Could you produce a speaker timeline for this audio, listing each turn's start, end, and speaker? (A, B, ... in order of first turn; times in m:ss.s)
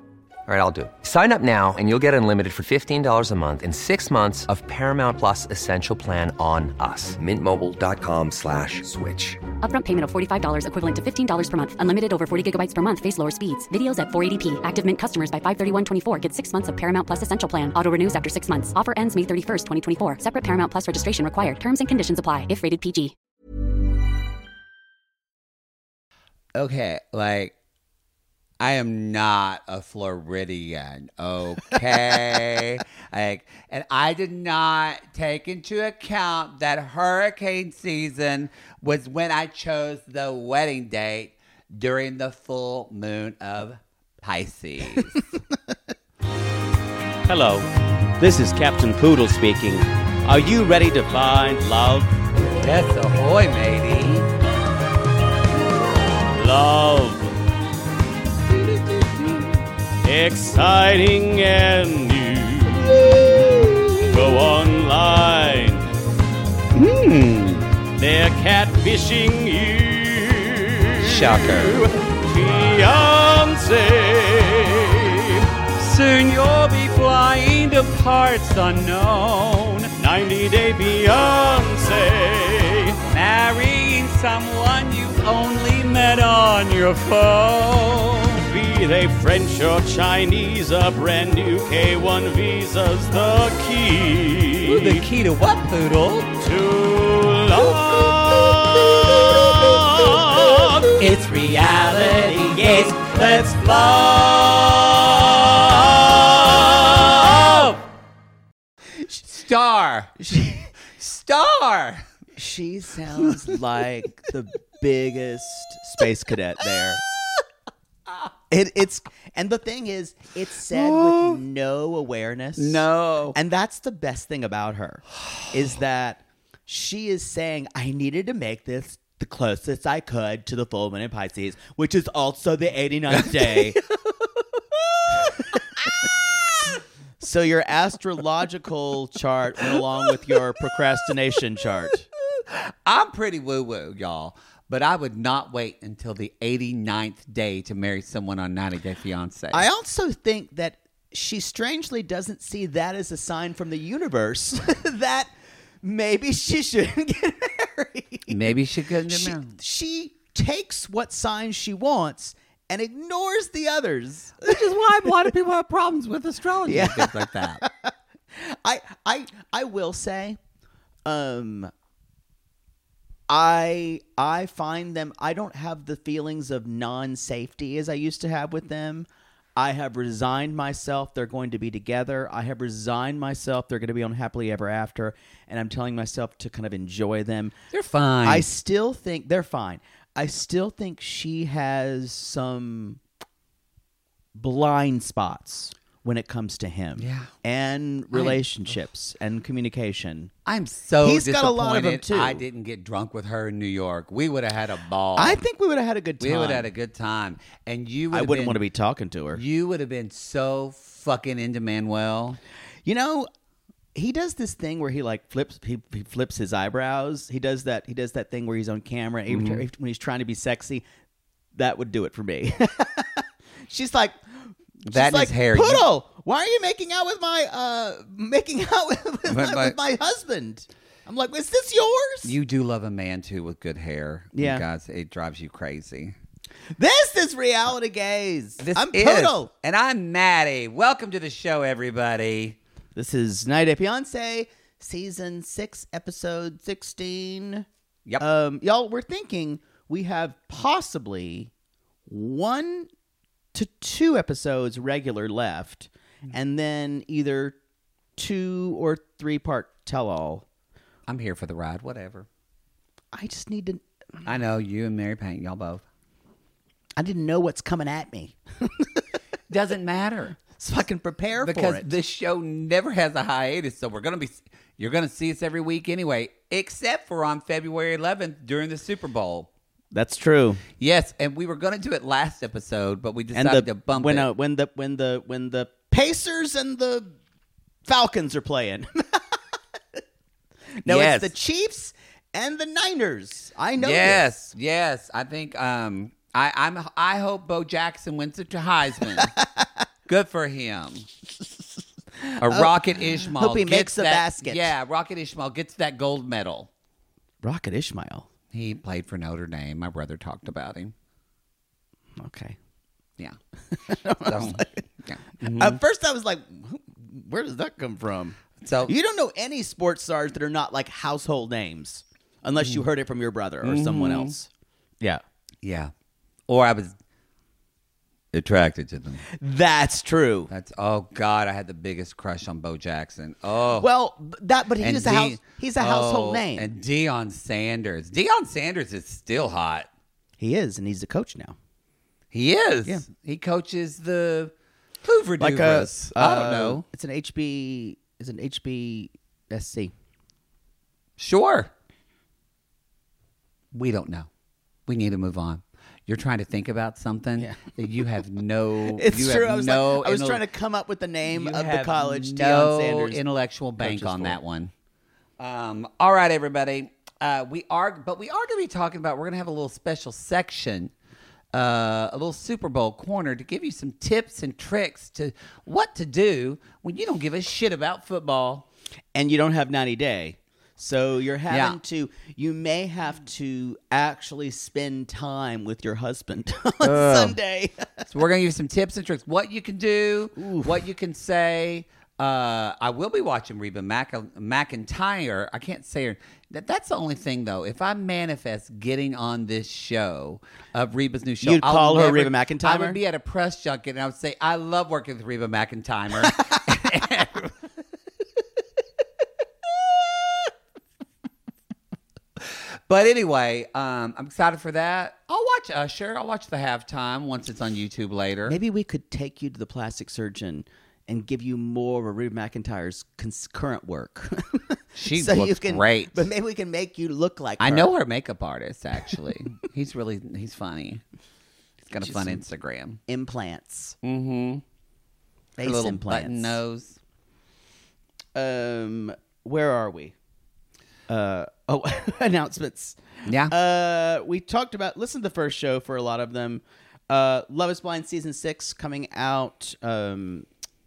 0:00.5-0:09.4 A
0:09.6-0:23.2 B
0:26.6-0:27.5 C
0:28.6-0:45.2 C
0:47.3-0:47.7 D
0:48.2-0:49.7 E
0:48.2-0:52.1 D
0:52.6-0:54.3 C
0:56.3-0:57.4 D
0:58.5-0:59.5 C
1:00.0-1:03.3 D
1:03.0-1:04.1 C
1:04.1-1:05.8 D
1:06.7-1:07.7 C
1:08.0-1:15.5 D
1:11.0-1:11.8 C
1:15.8-1:19.9 C
1:20.0-1:23.0 D
1:23.1-1:28.4 C
1:28.4-1:35.0 D
1:34.6-1:36.3 C
1:36.4-1:40.9 D
1:38.5-1:39.8 C
1:41.0-1:44.8 C
1:42.5-1:45.8 D
1:46.1-1:47.8 C
1:46.8-1:47.5 D
1:49.2-1:50.2 C
1:50.2-1:50.7 E
1:51.0-1:52.1 C
1:52.4-1:57.0 E
1:58.5-2:13.8 E
2:00.7-2:01.4 C
2:02.6-2:03.4 C
2:13.4-2:13.6 C
2:14.9-2:15.4 C
2:17.2-2:22.0 E
2:22.3-2:29.7 C
2:29.5-2:45.3 E
2:38.3-2:39.6 C
2:44.4-2:47.6 C
2:46.6-2:50.4 E
2:51.1-2:51.7 E
2:53.3-3:07.6 E
3:07.7-3:08.5 C
3:08.2-3:13.0 E
3:14.4-3:20.3 E
3:17.0-3:17.3 C
3:18.1-3:18.4 C
3:20.5-3:25.4 C
3:21.0-3:22.4 E
3:25.2-3:26.7 E
3:26.2-3:28.6 C
3:28.1-3:29.4 E
3:29.3-3:32.4 C
3:32.8-3:33.3 E
3:34.0-3:40.8 E
3:39.3-3:39.6 C
3:41.5-3:52.4 E
3:44.9-3:45.9 C
3:49.3-3:49.8 C
3:52.2-3:56.2 C
3:54.4-3:54.6 E
3:56.7-3:59.5 E
3:58.6-4:02.6 C
4:03.0-4:07.7 E
4:08.2-4:11.5 E
4:12.1-4:12.9 E
4:13.5-4:17.6 E
4:18.2-4:20.4 E
4:21.1-4:22.3 C
4:23.1-4:23.8 E
4:24.2-4:25.8 C
4:27.0-4:29.1 E
4:29.5-4:30.4 C
4:30.5-4:31.9 E
4:31.4-4:39.5 C
4:39.9-4:40.6 E
4:40.8-4:44.3 C
4:43.3-4:47.2 E
4:47.9-4:49.4 E
4:50.8-4:54.2 E
4:50.9-4:51.3 C
4:53.8-4:59.3 C
5:00.1-5:01.1 C
5:02.2-5:04.7 E
5:02.4-5:06.7 C
5:07.4-5:08.3 E
5:08.5-5:10.9 C
5:12.2-5:12.6 E
5:13.7-5:14.8 E
5:14.2-5:15.8 C
5:15.4-5:24.5 E
5:18.6-5:18.9 C
5:23.6-5:24.4 C
5:25.6-5:25.9 C
5:26.5-5:27.0 C
5:28.3-5:29.3 C
5:29.3-5:30.5 E
5:30.5-5:33.9 C
5:33.8-5:36.7 E
5:34.8-5:39.9 C
5:40.4-5:41.6 E
5:42.3-5:44.5 C
5:45.0-5:46.8 C
5:45.4-5:49.9 E
5:51.2-5:51.7 C
5:53.7-5:54.3 C
5:54.9-6:00.4 C
5:58.9-6:03.2 E
6:01.3-6:04.7 C
6:03.8-6:04.4 E
6:05.4-6:10.9 C
6:11.5-6:18.7 C
6:19.1-6:28.1 E
6:21.5-6:21.8 C
6:26.8-6:27.4 C
6:28.1-6:47.6 C
6:30.4-6:30.8 E
6:41.4-6:43.0 E
6:52.9-6:58.6 C
6:58.4-7:07.9 E
7:05.0-7:06.3 C
7:07.6-7:11.0 C
7:11.8-7:13.0 C
7:12.0-7:12.4 E
7:13.1-7:14.0 E
7:14.0-7:14.6 C
7:15.6-7:16.6 E
7:15.6-7:17.0 C
7:18.4-7:20.2 E
7:21.1-7:30.5 E
7:23.3-7:23.6 C